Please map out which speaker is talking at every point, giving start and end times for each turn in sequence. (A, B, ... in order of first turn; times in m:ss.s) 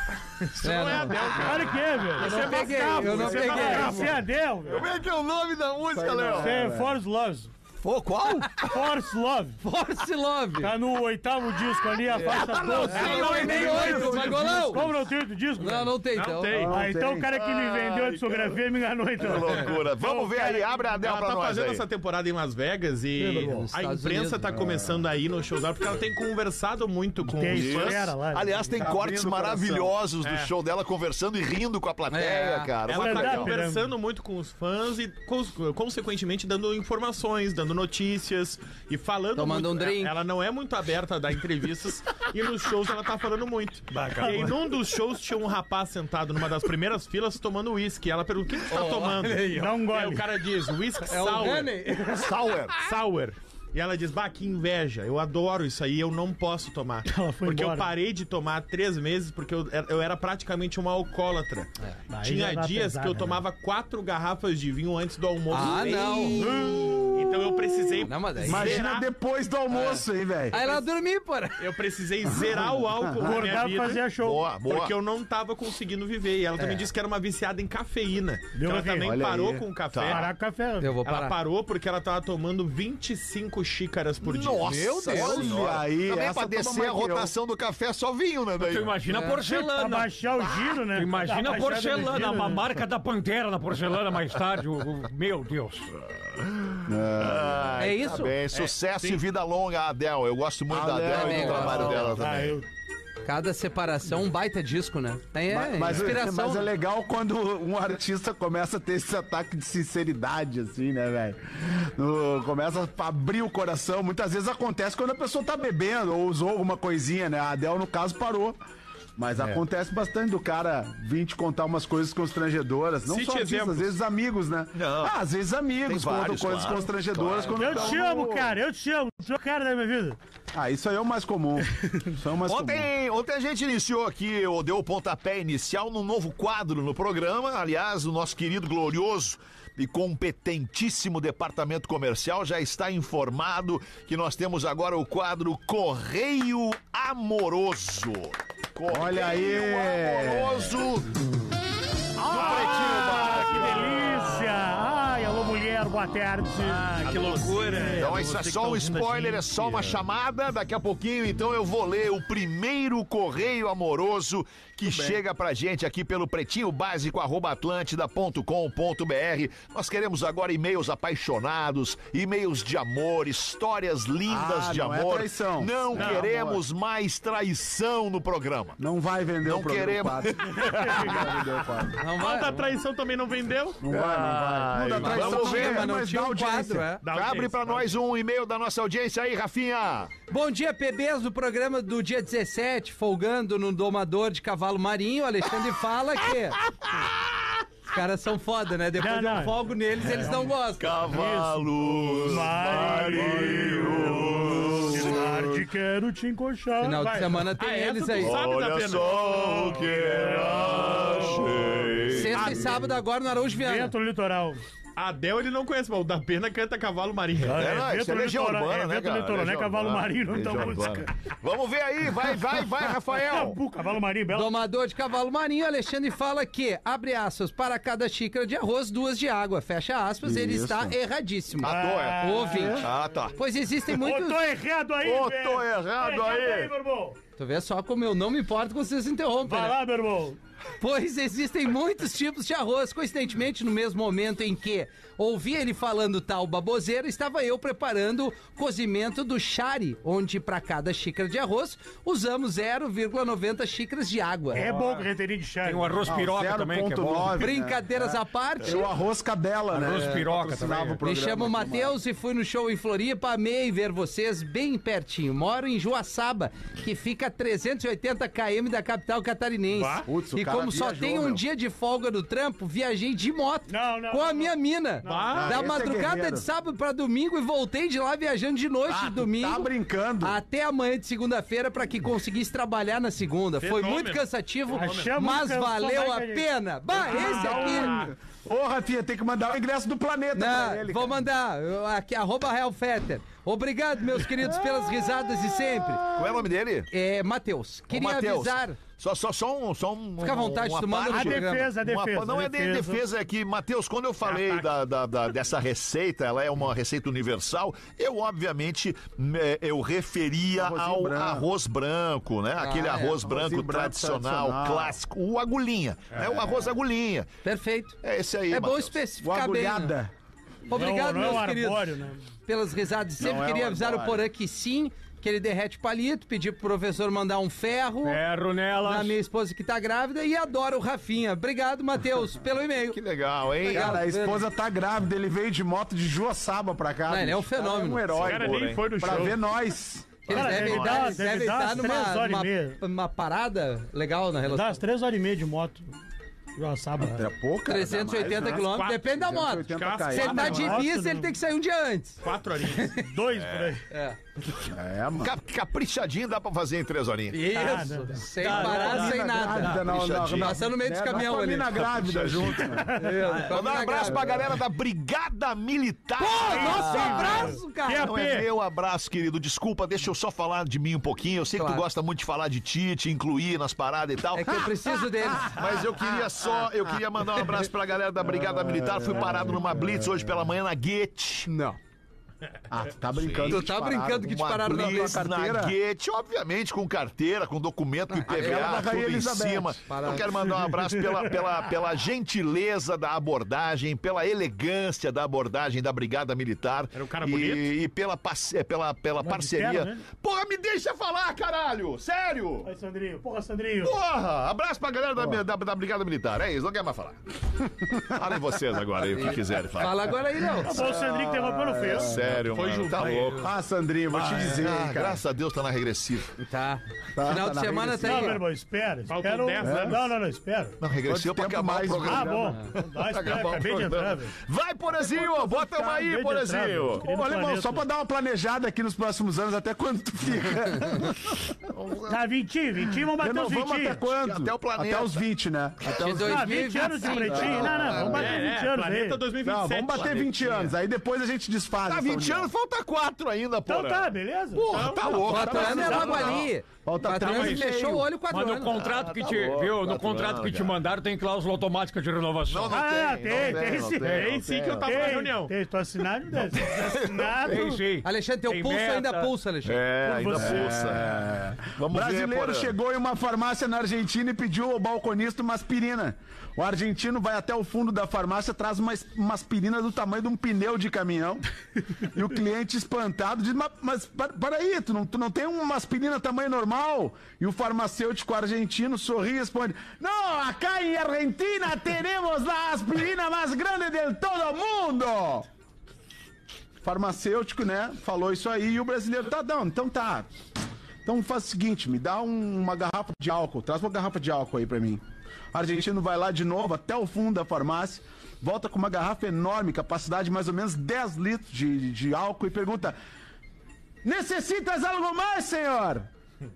0:00.5-0:04.2 A
0:00.6-0:01.5 B
0:01.3-0:04.9 C
0:02.2-0:04.1 B
0:02.2-0:04.1 D
0:04.6-0:06.6 D
0:05.9-0:06.9 E
0:06.4-0:07.5 C
0:07.8-0:08.9 D
0:08.6-0:09.6 C
0:09.6-0:10.7 B
0:10.6-0:16.0 C
0:12.2-0:14.4 D
0:12.8-0:14.9 B
0:13.1-0:14.1 A
0:13.2-0:14.6 E
0:15.6-0:16.6 B
0:16.1-0:16.8 A
0:16.5-0:17.3 E
0:16.7-0:20.7 C
0:17.8-0:18.1 D
0:19.2-0:21.8 D
0:20.0-0:20.3 A
0:20.8-0:28.1 A
0:23.2-0:23.7 C
0:23.7-0:24.5 B
0:24.5-0:25.0 E
0:27.2-0:28.9 C
0:27.5-0:33.5 D
0:28.8-0:30.0 E
0:30.2-0:30.5 A
0:32.1-0:32.7 B
0:32.8-0:51.7 A
0:32.9-0:33.9 C
0:39.4-0:40.2 B
0:44.0-0:44.4 F
0:48.7-0:49.8 B
0:49.5-0:50.3 C
0:51.0-0:52.6 B
0:52.0-0:52.8 D
0:52.8-1:01.7 A
0:57.0-0:57.9 C
1:02.1-1:03.4 C
1:02.2-1:06.4 A
1:05.5-1:06.8 B
1:06.3-1:07.1 C
1:07.1-1:09.1 A
1:08.0-1:08.8 B
1:08.4-1:10.6 E
1:09.7-1:11.6 B
1:10.5-1:10.8 A
1:11.6-1:14.1 A
1:12.3-1:13.2 E
1:13.2-1:14.5 C
1:14.2-1:14.9 D
1:14.6-1:20.3 A
1:16.6-1:16.9 B
1:18.5-1:19.0 C
1:19.0-1:19.6 E
1:19.9-1:20.3 D
1:20.0-1:20.9 C
1:20.8-1:21.3 B
1:21.0-1:24.8 A
1:24.2-1:29.0 D
1:24.6-1:25.5 B
1:25.1-1:27.3 E
1:28.6-1:30.2 F
1:29.1-1:29.4 B
1:29.4-1:32.7 C
1:30.9-1:35.9 F
1:36.1-1:42.6 D
1:36.8-1:37.8 E
1:37.8-1:38.4 B
1:38.5-1:39.2 A
1:40.7-1:42.5 E
1:41.1-1:42.1 B
1:42.2-1:42.6 C
1:43.2-1:46.7 B
1:45.5-1:58.6 E
1:59.2-2:08.6 E
2:03.1-2:03.9 A
2:04.7-2:05.1 D
2:05.8-2:08.0 D
2:07.5-2:10.2 C
2:10.5-2:12.9 E
2:12.5-2:31.1 D
2:28.9-2:30.8 E
2:32.2-2:34.3 D
2:32.2-2:38.1 C
2:32.3-2:33.0 A
2:36.6-2:40.0 A
2:37.3-2:37.7 F
2:37.8-2:58.8 D
2:44.8-2:45.2 E
2:54.2-2:56.6 E
2:55.9-2:56.2 A
2:58.8-3:02.0 E
2:59.4-3:01.4 D
3:02.0-3:02.5 B
3:02.0-3:03.8 A
3:03.8-3:06.9 E
3:03.9-3:05.8 D
3:05.0-3:07.0 B
3:07.0-3:08.0 A
3:07.1-3:10.1 D
3:10.3-3:16.6 B
3:17.9-3:20.9 B
3:19.0-3:27.5 C
3:20.8-3:25.5 D
3:26.8-3:28.4 B
3:27.6-3:32.8 A
3:28.2-3:32.6 D
3:29.4-3:32.7 C
3:32.1-3:33.9 B
3:33.6-3:34.6 C
3:35.0-3:37.8 A
3:37.4-3:41.1 C
3:37.5-3:43.6 D
3:43.2-3:44.5 C
3:44.3-3:54.4 B
3:50.2-3:51.0 E
3:51.6-3:53.0 C
3:51.6-3:53.3 D
3:53.8-3:57.2 C
3:55.0-3:56.7 D
3:57.4-3:59.8 B
3:59.4-4:00.4 C
4:00.8-4:14.8 B
4:14.5-4:16.0 C
4:15.6-4:17.4 F
4:16.0-4:22.0 E
4:17.4-4:18.9 B
4:19.7-4:21.0 F
4:19.9-4:20.2 B
4:21.0-4:39.7 B
4:29.7-4:30.1 A
4:30.0-4:31.4 E
4:33.7-4:35.5 C
4:35.0-4:35.6 A
4:35.3-4:36.5 E
4:38.9-4:40.4 E
4:40.2-4:47.9 B
4:43.6-4:44.2 A
4:44.7-4:48.1 C
4:44.8-4:45.2 A
4:47.0-4:48.1 A
4:47.7-4:51.2 E
4:50.3-4:56.0 B
4:54.5-4:56.5 E
4:56.2-4:56.9 D
4:56.9-4:58.8 B
4:57.9-5:17.3 D
5:00.2-5:01.7 B
5:01.1-5:03.0 C
5:04.2-5:04.7 A
5:10.5-5:11.5 E
5:12.6-5:13.2 B
5:13.2-5:15.0 E
5:17.4-5:18.0 B
5:18.0-5:19.0 D
5:18.5-5:19.9 B
5:19.2-5:20.1 E
5:20.7-5:21.9 B
5:20.7-5:22.2 C
5:22.4-5:28.2 B
5:23.2-5:24.3 E
5:28.0-5:29.1 F
5:28.8-5:33.0 B
5:32.8-5:34.0 D
5:33.6-5:34.4 B
5:33.7-5:40.3 E
5:37.1-5:38.0 B
5:38.1-5:38.9 D
5:38.2-5:39.4 A
5:40.2-5:44.8 B
5:40.3-5:41.2 D
5:40.3-5:42.8 C
5:44.4-5:45.9 C
5:46.6-5:47.3 C
5:47.0-5:50.7 E
5:47.7-5:52.2 B
5:48.4-5:49.0 A
5:49.7-5:50.8 A
5:50.1-5:51.3 C
5:52.2-5:53.0 A
5:52.7-5:53.0 B
5:52.9-5:53.8 C
5:53.3-5:53.8 D
5:53.9-5:54.2 B
5:54.6-5:55.3 E
5:55.2-5:57.4 D
5:57.3-6:01.8 B
5:57.5-5:59.0 C
5:58.4-5:59.7 F
5:58.8-6:02.9 E
5:59.8-6:00.6 D
6:01.7-6:02.8 D
6:02.6-6:03.3 C
6:03.0-6:04.4 B
6:03.4-6:14.7 D
6:06.2-6:08.1 B
6:06.4-6:08.5 C
6:11.5-6:11.8 B
6:14.3-6:15.6 B
6:15.4-6:21.5 D
6:18.2-6:20.4 E
6:21.5-6:21.8 E
6:22.7-6:25.8 E
6:23.1-6:23.6 D
6:23.4-6:25.2 B
6:24.2-6:42.7 D
6:28.1-6:28.7 B
6:28.3-6:29.8 E
6:29.9-6:30.4 B
6:36.9-6:37.7 A
6:39.2-6:40.0 C
6:42.6-6:43.9 C
6:43.8-6:47.2 D
6:45.2-6:45.4 E
6:47.6-6:48.4 E
6:48.1-6:50.2 D
6:49.1-6:50.8 B
6:50.6-6:52.1 C
6:50.6-6:52.4 E
6:51.9-6:53.5 D
6:52.3-6:53.5 A
6:53.4-6:55.2 E
6:54.1-6:56.3 D
6:56.4-6:58.4 B
6:57.1-6:58.4 E
6:58.0-7:00.8 C
6:59.1-7:00.1 A
6:59.6-7:00.0 E
7:00.8-7:07.0 D
7:01.0-7:02.6 E
7:02.0-7:04.4 C
7:05.0-7:07.8 C
7:07.0-7:11.4 E
7:11.7-7:12.2 D
7:12.1-7:14.0 C
7:13.1-7:15.8 E
7:14.1-7:15.2 D
7:15.8-7:16.4 D
7:15.9-7:17.7 B
7:16.1-7:19.3 C
7:17.2-7:18.3 E
7:17.5-7:18.1 D
7:17.9-7:20.8 A
7:19.4-7:22.5 E
7:21.8-7:26.5 D
7:23.7-7:24.7 C
7:24.7-7:25.1 A
7:25.1-7:28.1 E
7:25.2-7:28.8 B
7:27.2-7:27.6 A
7:28.3-7:32.8 F
7:28.9-7:29.4 C
7:29.2-7:30.8 D
7:32.5-7:35.1 D
7:32.7-7:37.8 C
7:34.0-7:35.5 A
7:34.0-7:34.3 F
7:36.5-7:37.5 D
7:37.4-7:39.3 F
7:38.0-7:39.8 B
7:39.6-7:41.2 D
7:40.0-7:40.8 C
7:40.3-7:51.4 E
7:41.7-7:42.7 D
7:52.0-8:05.5 E
8:06.8-8:10.3 E
8:11.0-8:15.0 E
8:15.5-8:23.0 E
8:24.0-8:26.1 E